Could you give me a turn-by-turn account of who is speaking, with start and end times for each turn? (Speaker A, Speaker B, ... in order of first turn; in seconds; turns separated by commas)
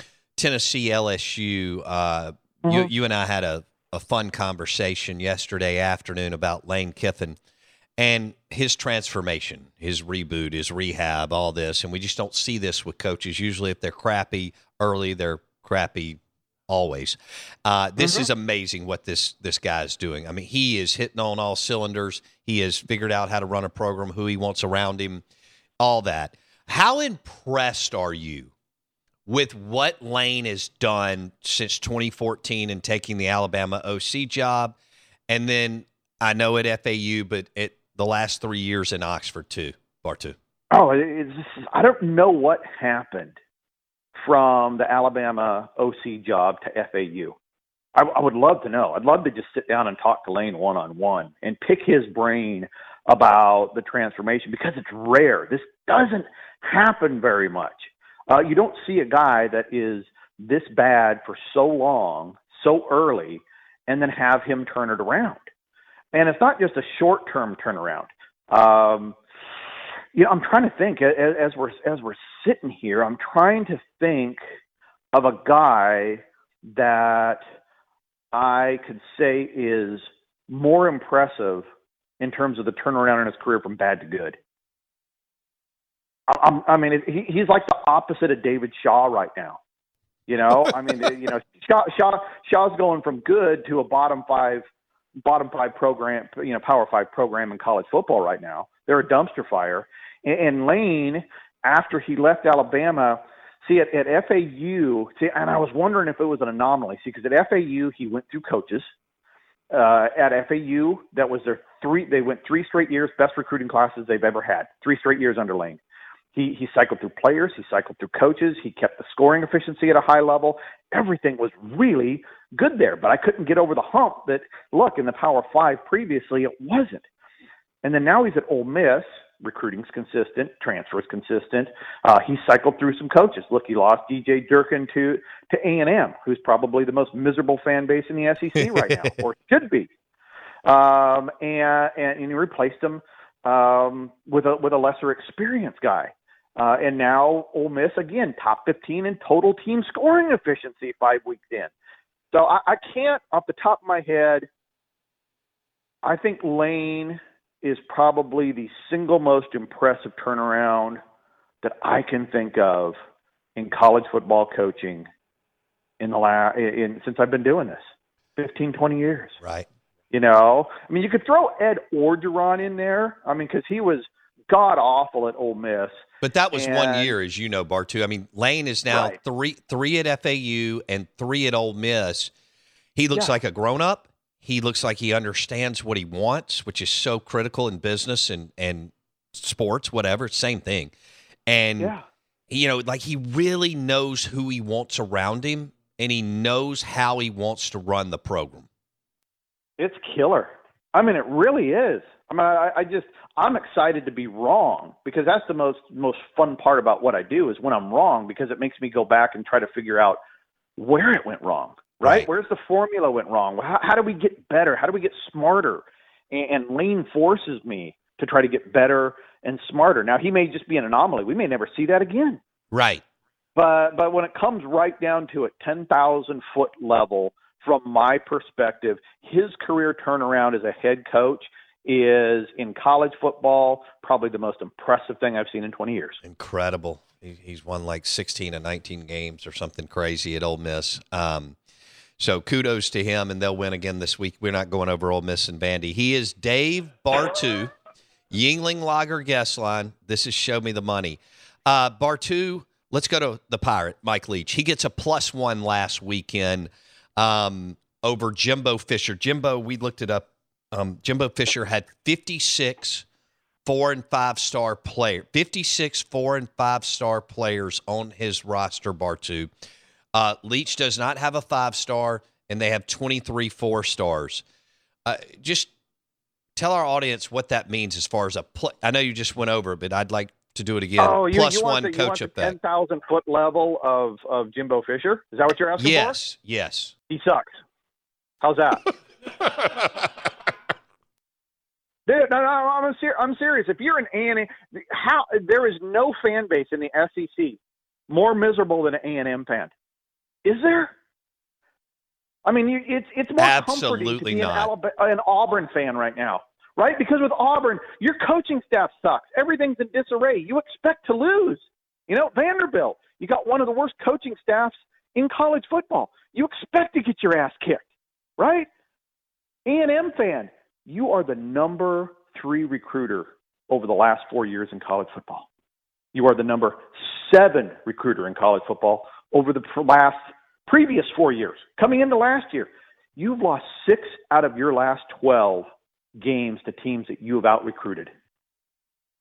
Speaker A: 0.4-7.4, Speaker A: 8.0-25.2, Speaker A: 25.8-28.5, Speaker A: 29.3-34.8, Speaker A: 35.3-40.4, Speaker B: 40.7-43.4, Speaker B: 44.1-47.4, Speaker B: 48.0-65.5, Speaker B: 66.1-69.2, Speaker B: 70.1-74.4, Speaker B: 75.1-77.4, Speaker B: 78.3-81.7, Speaker B: 82.2-84.4, Speaker B: 86.3-89.6, Speaker B: 90.3-94.7, Speaker B: 95.2-108.9, Speaker B: 109.7-115.8, Speaker B: 116.3-127.0, Speaker B: 127.8-139.9, Speaker A: 138.8-139.1, Speaker B: 140.7-151.7, Speaker B: 152.3-154.5, Speaker B: 156.0-161.0, Speaker B: 161.6-163.0, Speaker B: 163.6-165.1, Speaker B: 166.0-167.8, Speaker B: 168.4-169.4, Speaker B: 170.1-176.0, Speaker A: 176.2-182.3, Speaker B: 176.5-177.1, Speaker B: 178.9-179.2, Speaker A: 182.9-190.9, Speaker A: 191.5-191.9, Speaker A: 192.5-198.7, Speaker B: 199.8-210.2, Speaker B: 210.8-222.4, Speaker A: 212.0-212.3, Speaker A: 222.7-223.0, Speaker B: 223.6-236.2, Speaker A: 236.2-241.6, Speaker A: 242.2-247.7, Speaker A: 248.3-263.1, Speaker A: 263.7-269.5, Speaker A: 270.1-274.4, Speaker A: 275.1-275.7, Speaker A: 276.6-282.6, Speaker B: 281.0-286.2, Speaker A: 285.8-286.9, Speaker B: 287.1-287.6, Speaker B: 288.4-288.8, Speaker B: 292.1-299.7, Speaker B: 300.4-300.9, Speaker B: 302.4-317.8, Speaker A: 303.4-304.7, Speaker B: 318.4-318.7, Speaker B: 319.7-325.5, Speaker B: 326.1-338.1